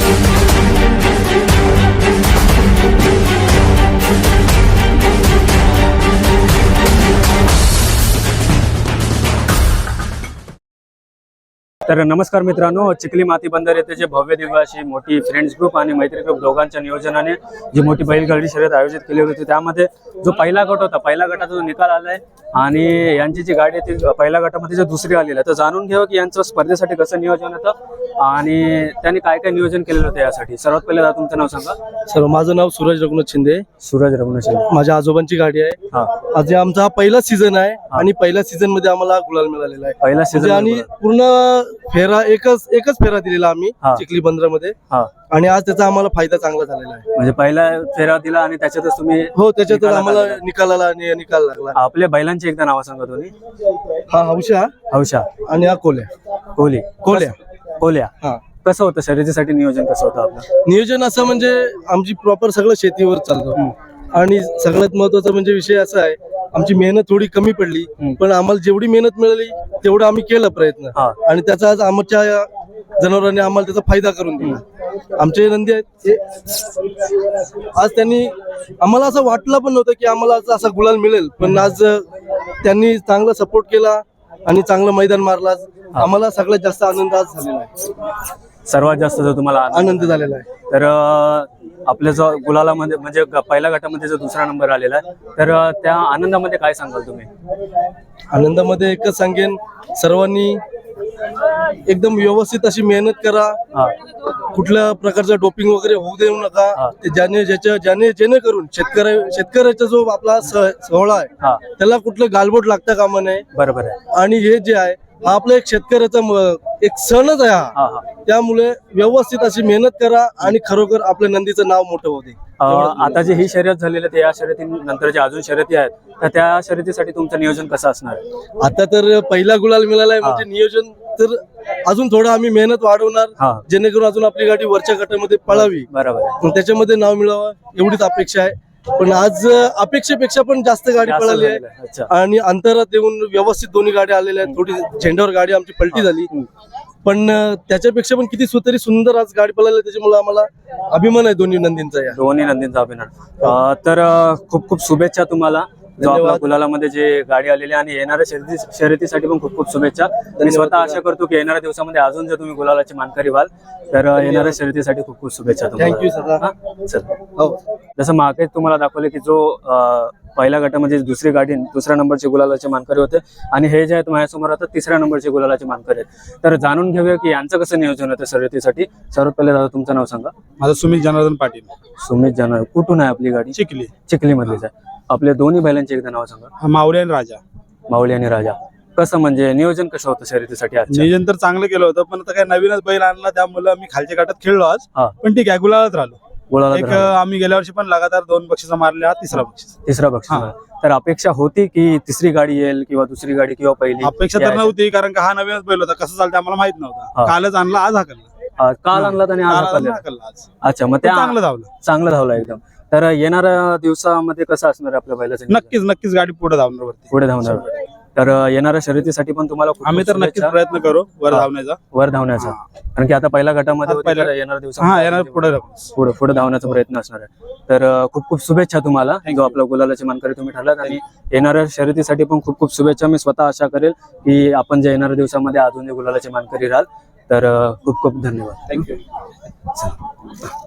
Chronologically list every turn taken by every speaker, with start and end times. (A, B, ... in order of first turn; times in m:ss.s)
0:11.8-0:31.8 A
0:32.0-0:33.7 B
0:33.8-0:34.7 A
0:34.7-0:44.8 B
0:35.9-0:36.2 A
0:40.0-0:40.9 A
0:45.3-0:47.0 B
0:47.1-0:50.4 A
0:49.3-0:51.8 B
0:51.7-0:53.3 A
0:54.1-0:54.8 B
0:54.9-0:55.4 A
0:55.4-0:56.1 B
0:56.6-1:00.5 A
0:57.0-0:57.3 B
1:00.6-1:14.6 B
1:15.2-1:16.7 B
1:17.6-1:22.1 B
1:22.6-1:27.7 B
1:28.6-1:37.3 A
1:29.7-1:30.5 B
1:38.3-1:40.6 B
1:41.8-1:43.6 B
1:44.5-1:53.4 B
1:51.4-1:51.7 A
1:53.5-1:54.0 A
1:54.0-2:03.4 B
1:57.7-1:58.1 A
2:02.6-2:08.2 A
2:08.6-2:15.9 B
2:10.2-2:10.4 A
2:13.4-2:13.6 A
2:15.5-2:16.4 A
2:16.4-2:26.3 B
2:21.0-2:22.1 A
2:25.9-2:26.5 A
2:27.0-2:32.2 B
2:32.1-2:47.2 A
2:36.0-2:36.6 B
2:40.4-2:41.0 B
2:44.2-2:44.6 B
2:45.8-2:46.4 B
2:47.3-2:47.6 B
2:48.0-3:00.3 A
3:00.6-3:01.7 C
3:02.0-3:03.5 A
3:03.5-3:03.9 C
3:04.1-3:06.5 A
3:06.6-3:07.4 C
3:07.9-3:11.0 A
3:10.9-3:16.2 C
3:16.5-3:17.1 A
3:16.7-3:19.7 C
3:19.8-3:24.7 A
3:24.0-3:28.3 C
3:28.6-3:30.0 A
3:29.0-3:30.5 C
3:30.6-3:35.7 A
3:31.0-3:31.7 C
3:35.5-3:37.1 C
3:37.1-3:40.5 A
3:39.8-3:41.8 C
3:41.3-3:58.9 A
3:43.8-3:45.9 C
3:49.3-3:49.5 C